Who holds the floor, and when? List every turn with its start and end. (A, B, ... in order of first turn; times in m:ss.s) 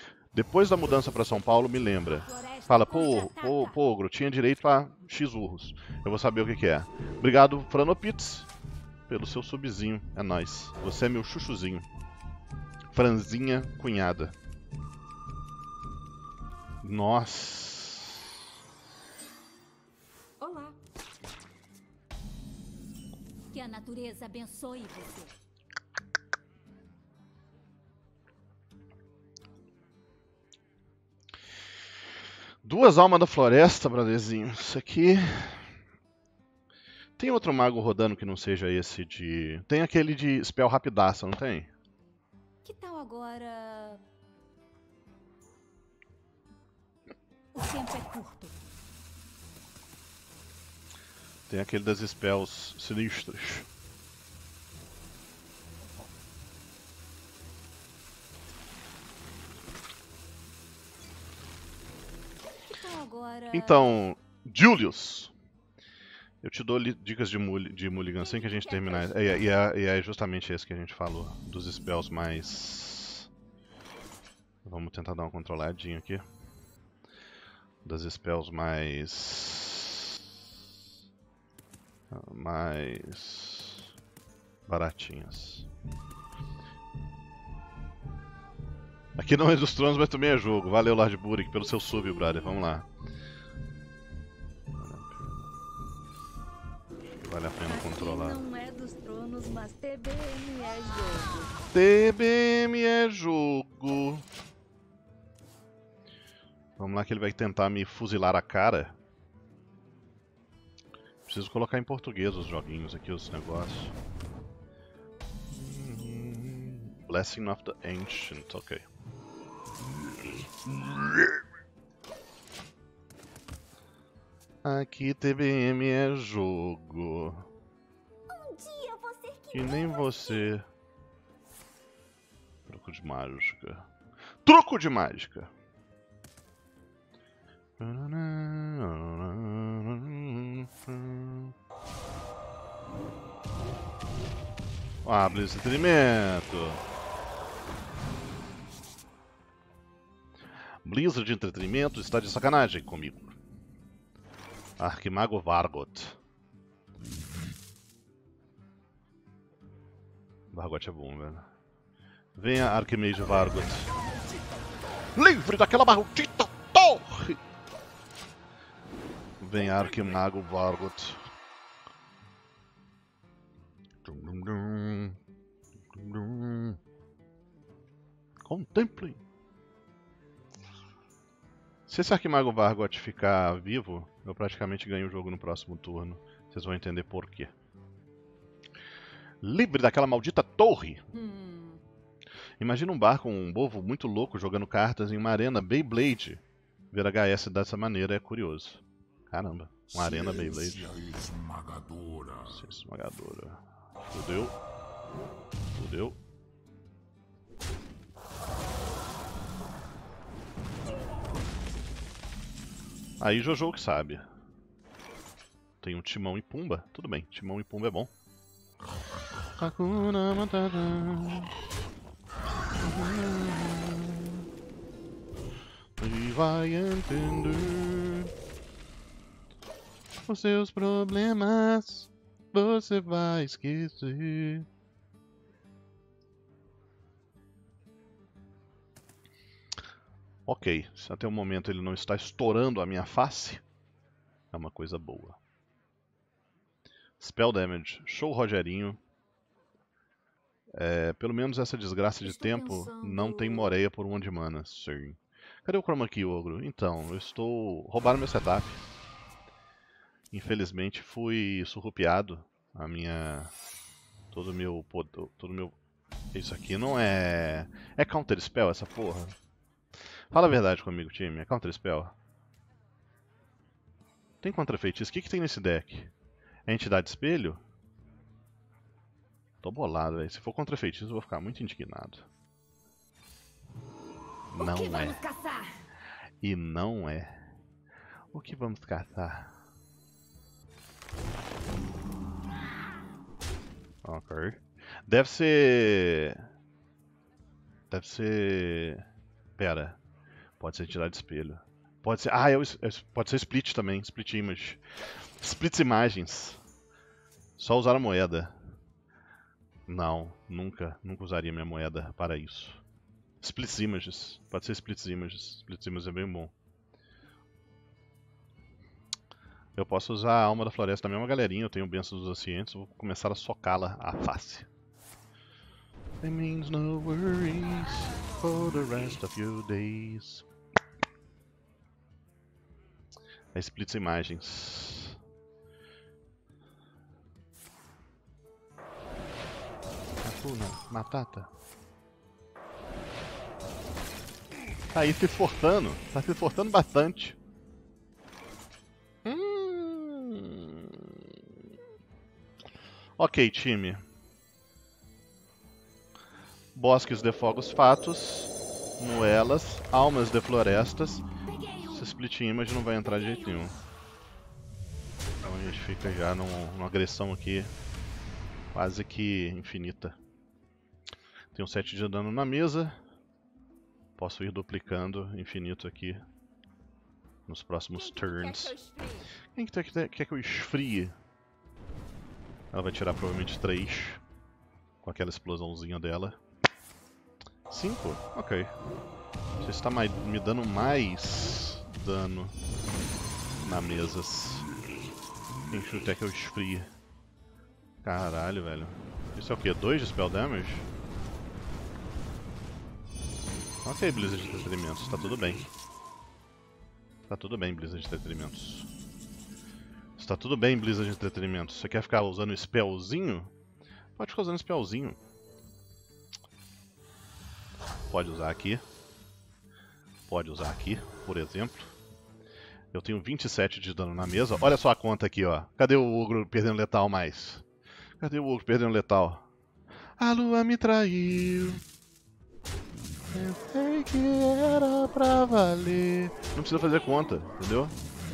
0:00.3-0:08.5 A
0:02.1-0:03.8 B
0:09.1-0:11.9 A
0:12.9-0:14.4 A
0:16.8-0:18.3 A
0:20.4-0:20.7 B
0:23.5-0:25.3 B
0:32.6-0:35.7 A
0:37.2-0:41.7 A
0:42.6-0:44.0 B
0:47.5-0:48.6 B
0:51.5-0:53.7 A
1:02.7-1:03.9 B
1:03.5-1:05.3 A
1:06.4-1:13.3 A
1:08.1-1:09.4 B
1:14.6-1:16.2 A
1:17.8-1:20.2 A
1:22.1-1:23.9 A
1:24.7-1:25.7 A
1:29.2-1:32.9 A
1:34.8-1:35.5 A
1:37.2-1:38.4 A
1:37.6-1:41.6 C
1:41.7-1:44.2 A
1:46.8-1:48.9 A
1:51.2-1:53.9 A
1:55.5-1:58.8 A
2:00.2-2:01.4 A
2:04.6-2:07.5 A
2:08.3-2:10.4 B
2:09.5-2:10.7 A
2:12.7-2:13.8 A
2:14.4-2:15.5 A
2:17.8-2:21.5 A
2:25.0-2:26.8 A
2:30.8-2:33.4 A
2:34.8-2:36.2 A
2:40.5-2:41.4 A
2:42.3-2:43.9 A
2:45.1-2:47.4 A
2:49.4-2:51.2 A
2:54.0-2:55.2 A
2:55.9-2:56.8 A
2:58.4-2:59.2 A
3:01.9-3:07.5 A
3:09.4-3:11.0 A
3:11.1-3:11.8 B
3:12.6-3:20.9 A
3:19.9-3:22.6 D
3:22.5-3:24.6 A
3:25.7-3:26.2 A
3:33.2-3:34.2 A
3:35.8-3:38.1 A
3:39.6-3:41.5 A
3:42.8-3:44.4 A
3:46.0-3:48.3 A
3:50.3-3:54.7 A
4:00.4-4:03.6 A
4:04.5-4:05.4 A
4:07.2-4:09.0 A
4:10.7-4:18.8 A
4:12.2-4:13.8 B
4:20.3-4:23.5 A
4:24.3-4:25.7 A
4:26.3-4:29.3 A
4:30.3-4:32.1 A
4:34.4-4:36.1 A
4:36.6-4:37.6 A
4:39.6-4:42.2 A
4:44.5-4:45.2 A
4:44.6-4:45.7 B
4:46.4-4:47.4 A
4:48.3-4:49.5 A
4:54.0-4:56.5 A
4:57.9-5:00.0 A
5:00.6-5:04.8 A
5:05.4-5:06.6 A
5:07.6-5:08.5 A
5:09.9-5:12.8 A
5:13.4-5:16.5 A
5:19.7-5:24.7 A
5:26.2-5:30.4 A
5:33.5-5:35.2 A
5:40.2-5:41.5 A
5:44.9-5:47.4 A
5:49.2-5:51.3 A
5:53.2-5:54.0 A
5:56.7-6:01.2 A
6:01.5-6:01.8 B
6:01.8-6:03.8 A
6:05.4-6:07.7 A
6:08.7-6:10.2 A
6:11.5-6:13.0 A
6:14.2-6:16.2 A
6:17.5-6:18.8 A
6:18.0-6:19.3 B
6:19.5-6:21.1 A
6:22.7-6:24.2 A
6:25.0-6:26.4 A
6:27.7-6:28.7 A
6:29.6-6:32.5 A
6:33.6-6:34.7 A
6:35.7-6:36.9 A
6:38.0-6:40.9 A
6:43.8-6:45.6 A
6:47.3-6:48.9 A
6:50.2-6:53.5 A
6:54.2-6:55.2 A
6:58.1-6:58.8 A
7:00.3-7:01.9 A
7:02.9-7:07.6 A
7:08.2-7:09.5 A
7:10.2-7:11.8 A
7:13.3-7:17.9 A